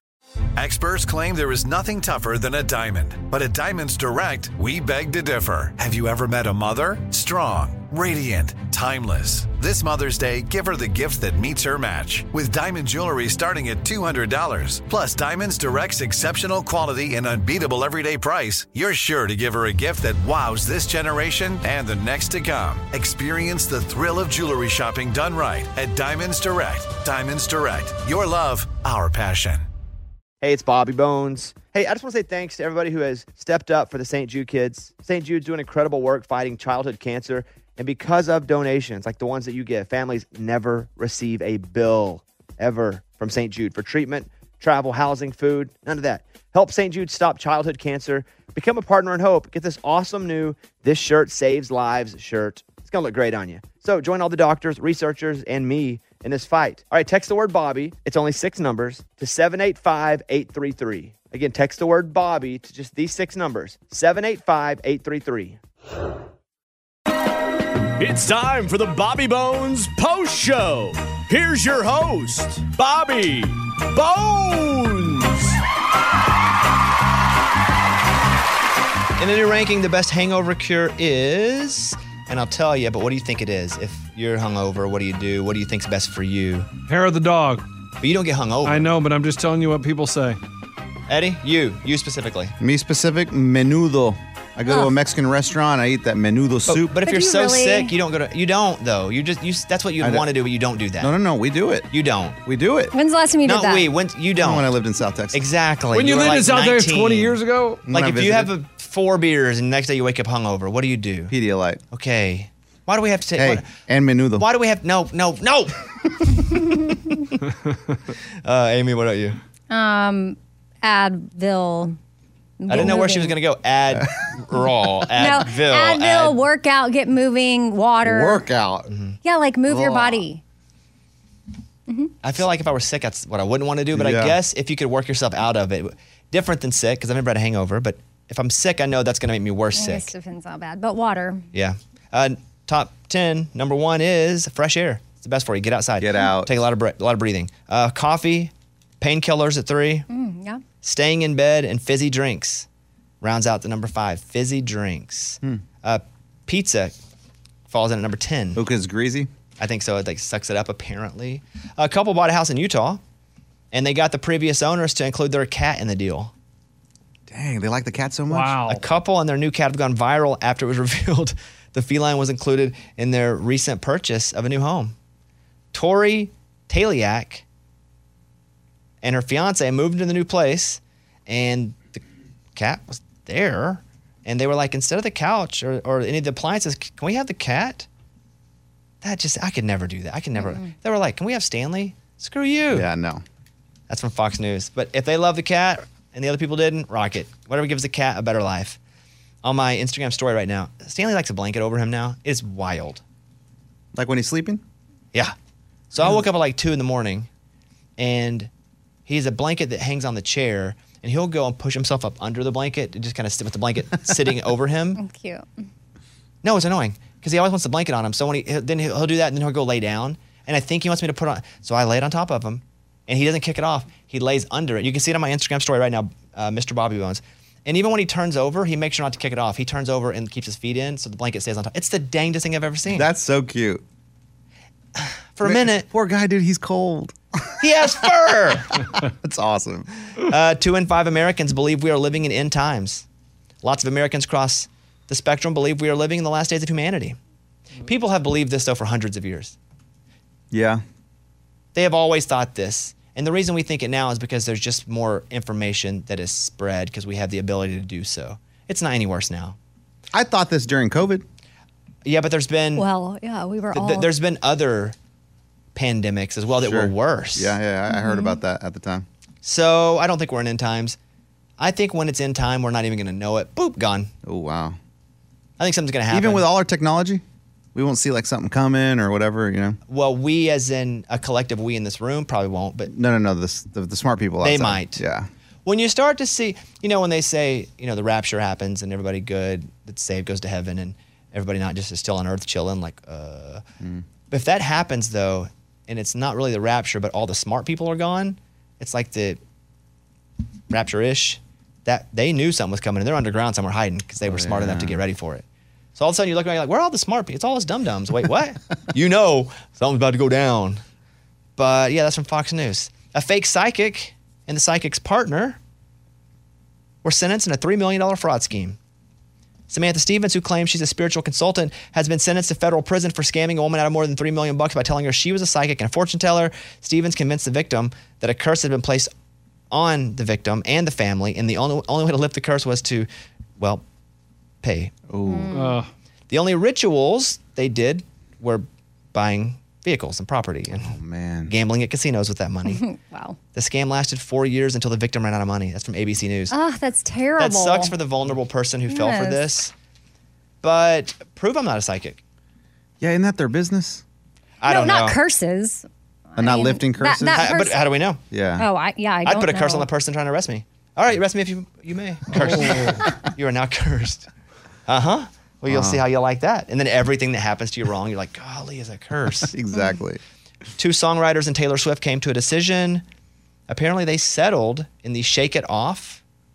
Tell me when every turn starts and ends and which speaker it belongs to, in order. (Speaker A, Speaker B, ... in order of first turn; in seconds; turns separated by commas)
Speaker A: 0.6-29.7, Speaker B: 30.4-65.6, Speaker C: 68.0-75.6, Speaker B: 79.2-86.7, Speaker D: 86.8-87.7, Speaker B: 88.0-88.9, Speaker D: 88.6-90.4, Speaker B: 91.1-92.5, Speaker E: 92.6-96.9, Speaker B: 96.7-101.1, Speaker F: 97.0-97.9, Speaker E: 100.0-100.3, Speaker E: 101.0-101.9, Speaker B: 101.9-102.4, Speaker E: 102.4-102.9, Speaker F: 102.9-103.9, Speaker B: 103.4-104.7, Speaker E: 104.4-105.4, Speaker B: 105.3-111.3, Speaker D: 105.9-107.9, Speaker E: 107.9-108.5, Speaker E: 111.3-111.8, Speaker B: 111.9-113.7, Speaker E: 113.3-114.5, Speaker B: 114.4-117.4, Speaker B: 118.4-119.4, Speaker F: 119.7-122.0, Speaker F: 122.6-123.4, Speaker B: 122.7-126.4, Speaker E: 123.9-124.7, Speaker F: 125.2-128.4, Speaker E: 128.0-128.9, Speaker B: 128.9-129.2, Speaker F: 129.2-130.4, Speaker E: 129.7-130.2, Speaker F: 131.9-132.1, Speaker B: 132.2-140.1, Speaker E: 133.9-134.4, Speaker F: 139.7-141.5, Speaker B: 141.5-150.1, Speaker E: 146.0-146.5, Speaker F: 150.1-150.6, Speaker B: 150.8-152.7, Speaker B: 153.2-156.9, Speaker B: 157.7-158.6, Speaker E: 158.5-159.3, Speaker B: 159.6-163.0, Speaker B: 163.7-166.3, Speaker E: 167.3-168.7, Speaker D: 168.3-168.8, Speaker B: 168.7-174.9, Speaker B: 175.7-177.4, Speaker B: 179.0-182.0, Speaker B: 182.5-187.9, Speaker B: 189.0-192.9, Speaker F: 190.4-190.7, Speaker E: 192.7-193.2, Speaker B: 193.9-198.8, Speaker B: 199.4-203.0, Speaker E: 203.9-204.6, Speaker B: 205.9-207.3, Speaker B: 208.0-208.5, Speaker B: 209.1-215.0, Speaker F: 215.0-215.7, Speaker B: 216.4-233.1, Speaker E: 232.9-233.8, Speaker B: 234.9-235.9, Speaker E: 235.4-238.1, Speaker B: 237.6-238.9, Speaker E: 238.8-239.9, Speaker B: 240.2-243.0, Speaker B: 243.6-247.2, Speaker B: 247.8-249.6, Speaker E: 250.5-250.8, Speaker B: 251.7-259.6, Speaker E: 260.1-261.2, Speaker B: 262.0-262.9, Speaker F: 262.8-264.1, Speaker B: 263.7-264.9, Speaker B: 265.7-267.6, Speaker E: 266.6-269.1, Speaker F: 267.9-268.4, Speaker B: 269.4-271.0, Speaker B: 271.6-274.1, Speaker E: 274.2-274.8, Speaker B: 275.6-276.5, Speaker E: 276.1-277.2, Speaker E: 277.7-279.8, Speaker B: 279.9-282.9, Speaker E: 282.9-285.3, Speaker B: 284.4-285.0, Speaker B: 285.6-293.6, Speaker B: 294.3-299.4, Speaker B: 300.7-310.8, Speaker E: 304.2-305.0, Speaker B: 311.6-315.6, Speaker B: 317.0-318.8, Speaker B: 319.7-329.1, Speaker B: 329.7-333.1, Speaker B: 334.6-334.9, Speaker E: 335.1-335.7, Speaker F: 335.2-335.8, Speaker D: 335.5-335.9, Speaker B: 336.3-340.9, Speaker E: 340.8-341.5, Speaker B: 341.5-342.8, Speaker F: 342.6-343.4, Speaker B: 343.5-346.5, Speaker F: 346.5-347.9, Speaker B: 347.4-349.7, Speaker F: 348.9-349.5, Speaker B: 350.6-352.2, Speaker E: 353.0-354.0, Speaker B: 354.6-355.2, Speaker F: 354.6-357.8, Speaker E: 356.4-357.5, Speaker B: 357.3-358.2, Speaker E: 358.3-358.7, Speaker F: 358.6-359.9, Speaker B: 359.2-364.3, Speaker B: 364.9-369.5, Speaker E: 365.7-366.0, Speaker E: 369.4-370.2, Speaker B: 370.8-373.0, Speaker B: 373.7-376.2